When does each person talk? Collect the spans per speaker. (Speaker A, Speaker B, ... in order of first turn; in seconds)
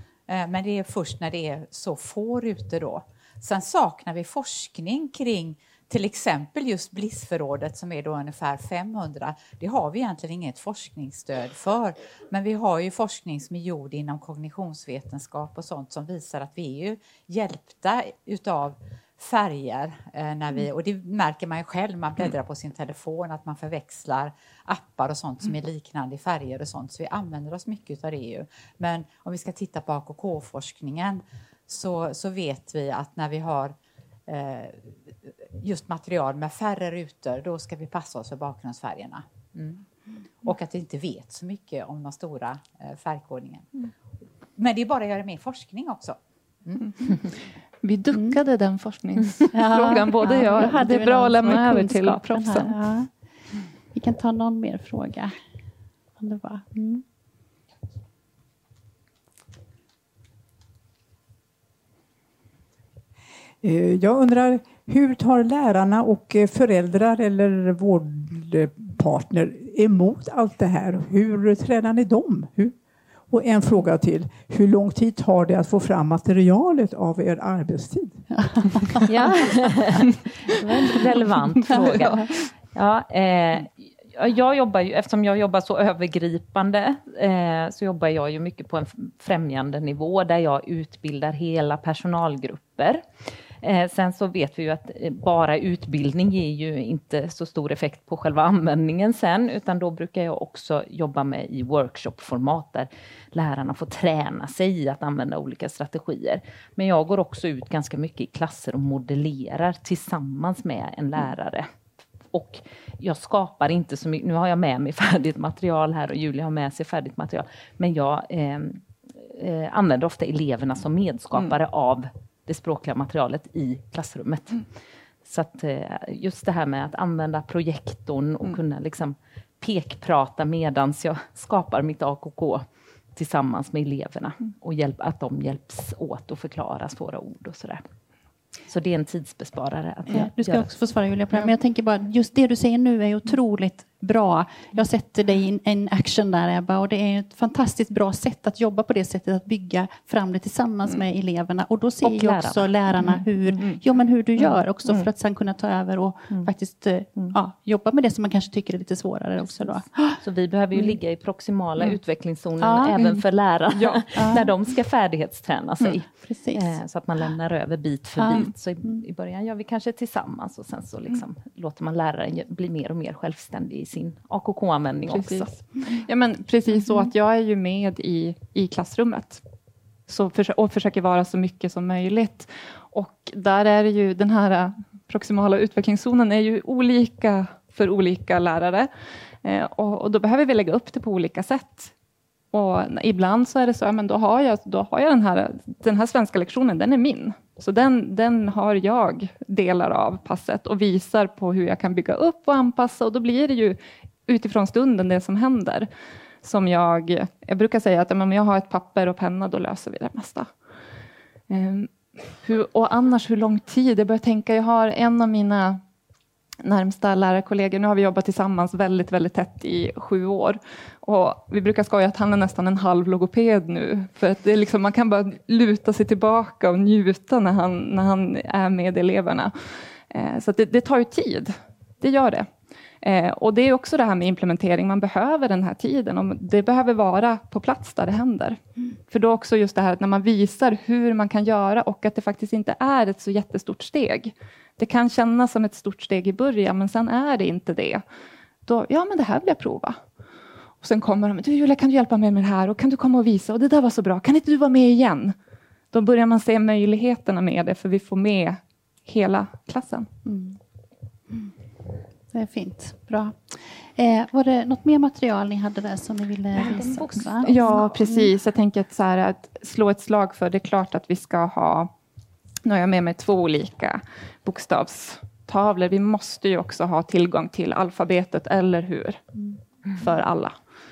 Speaker A: 0.3-33.8, 34.3-39.9, 40.4-43.9, 44.5-47.2
Speaker B: 47.8-52.8, 163.7-164.2, 175.1-179.4, 180.1-188.9, 189.4-191.9, 192.5-205.9, 206.4-210.5, 211.5-215.8, 216.6-229.5, 230.1-232.5, 233.0-248.0, 248.7-250.0, 250.8-255.3, 255.9-260.1, 267.4-271.9, 272.6-279.3, 279.9-280.6
Speaker C: 48.1-48.4, 49.5-53.1, 53.9-55.3, 56.2-57.0, 78.4-78.7, 81.7-82.2, 140.1-160.2, 162.6-163.0, 164.1-164.5, 166.2-166.7, 168.2-169.0, 260.2-260.6, 262.3-268.3
Speaker D: 63.6-72.8, 73.3-79.0
Speaker E: 79.1-93.0, 93.6-111.7, 112.3-124.7, 125.2-137.8, 138.7-140.7, 152.0-153.6, 160.2-175.5, 266.5-268.0